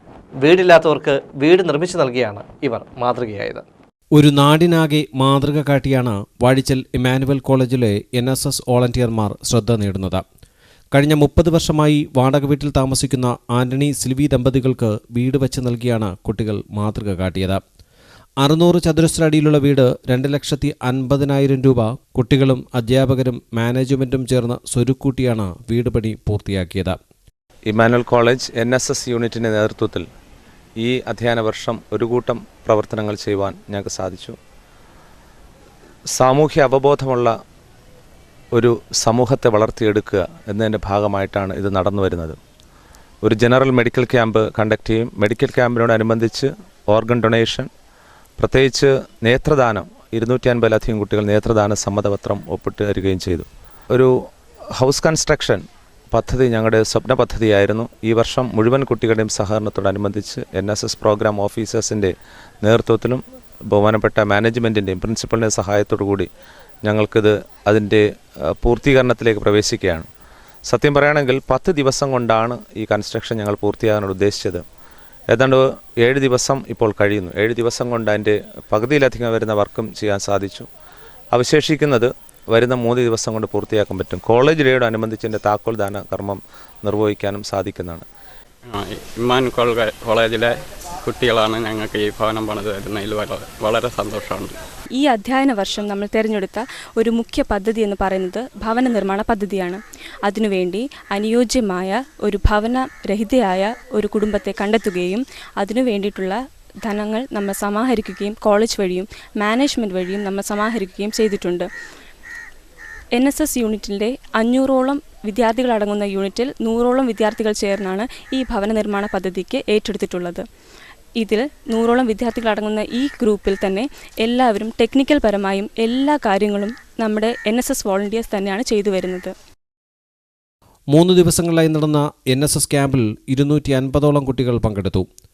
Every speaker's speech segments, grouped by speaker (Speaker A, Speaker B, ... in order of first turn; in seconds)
Speaker A: 0.4-3.6
Speaker B: 4.1-10.2, 10.9-17.6, 18.4-27.0, 130.9-135.1
Speaker C: 27.7-30.1, 30.8-34.4, 36.1-37.3, 38.5-42.4, 43.2-47.7, 48.4-54.1, 54.8-66.3, 66.8-70.1, 70.7-74.6, 75.3-80.7, 81.3-88.1
Speaker D: 88.7-94.6
Speaker E: 95.0-111.7, 113.1-120.4, 121.2-129.3